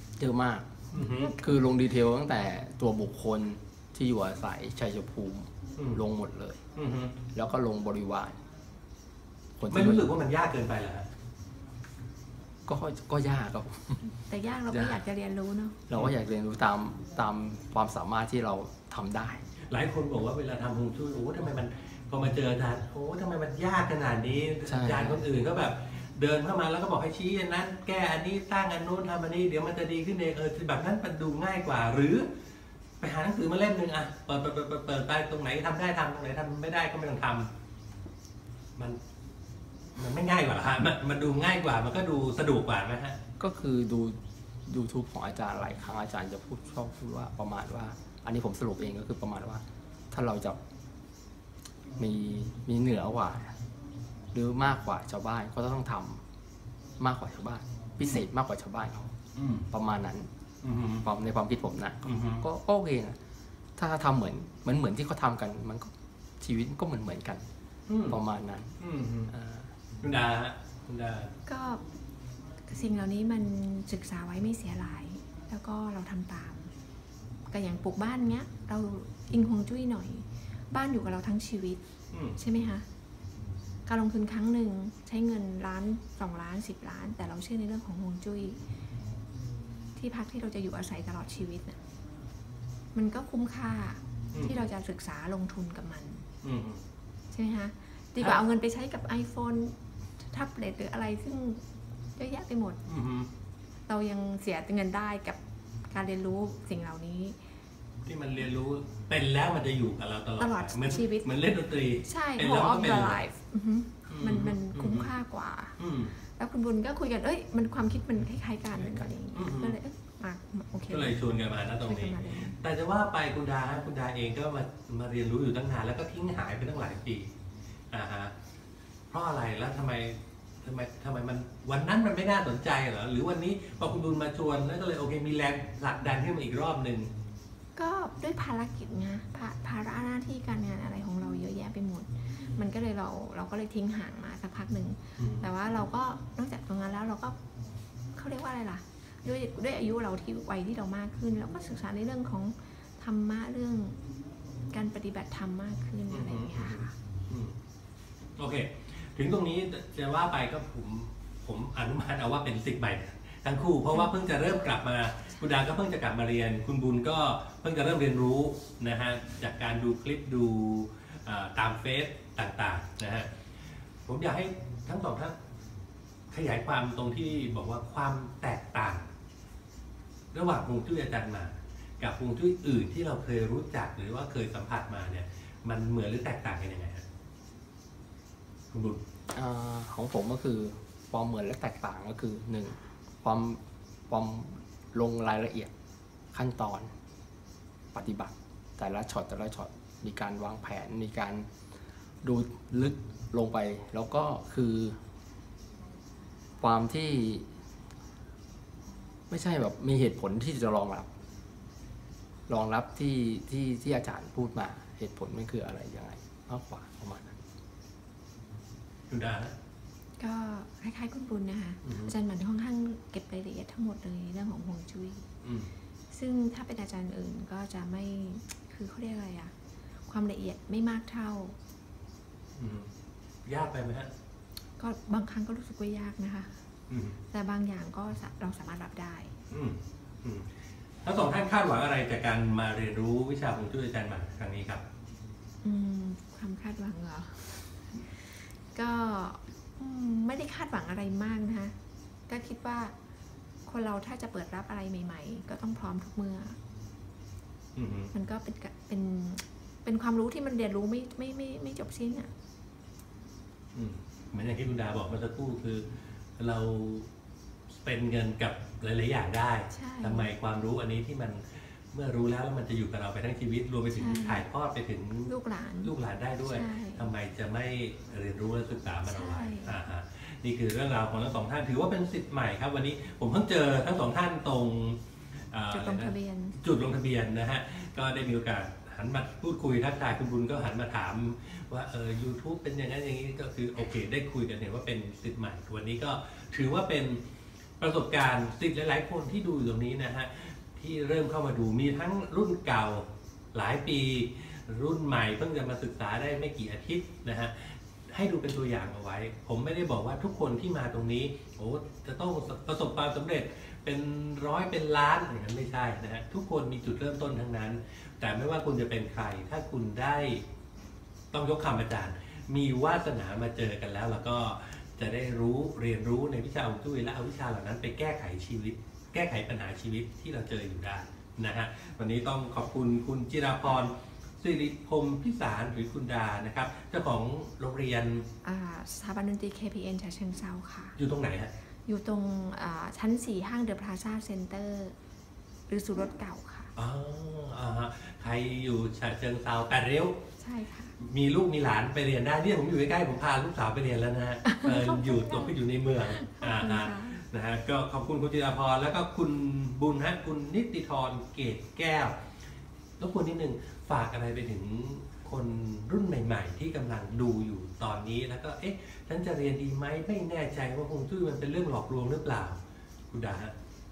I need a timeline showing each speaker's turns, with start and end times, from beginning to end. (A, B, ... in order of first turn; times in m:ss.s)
0:00.2-0:06.6 A
0:00.9-0:01.4 B
0:01.2-0:01.5 C
0:06.8-0:07.2 B
0:07.3-0:08.4 A
0:09.6-0:10.1 A
0:09.7-0:11.1 B
0:12.7-0:14.1 A
0:14.2-0:15.8 C
0:14.7-0:15.0 A
0:15.9-0:19.4 A
0:19.7-0:32.3 B
0:24.7-0:25.2 A
0:33.0-0:37.5 B
0:40.0-0:43.2 B
0:43.4-0:50.6 A
0:52.0-0:53.6 A
0:54.3-0:56.2 A
0:57.0-0:59.1 A
0:59.4-0:59.7 B
0:59.7-1:00.3 A
1:00.6-1:01.1 B
1:01.0-1:03.2 A
1:02.0-1:02.4 B
1:03.8-1:07.5 A
1:07.9-1:08.2 B
1:08.1-1:08.8 A
1:08.8-1:09.3 B
1:09.3-1:09.7 A
1:10.0-1:11.3 B
1:11.5-1:11.8 C
1:12.7-1:16.7 C
1:17.5-1:21.8 C
1:22.1-1:22.4 B
1:22.4-1:22.8 C
1:23.9-1:28.6 C
1:30.0-1:31.8 C
1:32.9-1:36.2 C
1:34.3-1:34.6 B
1:36.4-1:36.8 B
1:37.3-1:41.6 C
1:42.2-1:42.8 C
1:42.9-1:43.3 B
1:43.9-1:47.4 C
1:48.1-1:53.2 B
1:50.4-1:51.3 C
1:52.0-1:55.8 C
1:54.1-1:55.1 B
1:55.8-1:56.2 B
1:56.3-2:01.2 C
1:58.8-1:59.8 B
2:00.9-2:07.3 B
2:01.8-2:02.5 C
2:07.9-2:08.3 B
2:09.1-2:17.1 B
2:17.8-2:27.4 C
2:25.2-2:25.5 B
2:28.2-2:34.0 C
2:34.7-2:36.9 C
2:36.1-2:37.5 B
2:38.4-2:53.3 B
2:54.0-2:55.4 B
2:56.3-2:59.1 B
3:00.3-3:07.0 B
3:08.7-3:09.0 B
3:09.3-3:15.7 A
3:16.3-3:16.9 A
3:17.9-3:21.5 A
3:22.2-3:25.0 A
3:26.6-3:27.5 A
3:29.3-3:31.1 A
3:32.5-3:37.4 A
3:39.1-3:39.5 B
3:40.2-3:45.2 C
3:41.8-3:42.1 B
3:45.4-3:45.7 B
3:46.1-3:49.5 C
3:50.1-3:51.6 C
3:52.6-3:52.9 B
3:53.4-3:54.1 B
3:54.8-3:56.5 C
3:56.9-3:57.2 B
3:57.3-3:59.3 C
3:59.5-4:00.5 B
4:01.0-4:04.8 B
4:05.6-4:11.7 C
4:12.3-4:12.9 C
4:13.7-4:16.6 C
4:17.8-4:18.1 B
4:18.1-4:22.3 C
4:23.8-4:25.8 B
4:26.4-4:27.1 B
4:27.8-4:35.3 B
4:29.7-4:30.3 C
4:33.9-4:34.4 C
4:35.3-4:37.1 C
4:35.8-4:45.0 B
4:39.0-4:39.8 C
4:45.5-4:57.2 B
4:45.7-4:46.6 C
4:57.8-5:20.4 B
5:21.3-5:38.2 B
5:38.4-5:41.0 C
5:41.0-5:41.5 B
5:41.9-5:45.0 C
5:45.7-5:46.7 C
5:46.8-5:50.2 B
5:50.4-5:51.0 C
5:51.0-6:02.2 B
5:54.5-5:57.2 C
6:03.0-6:12.6 B
6:13.1-6:13.5 B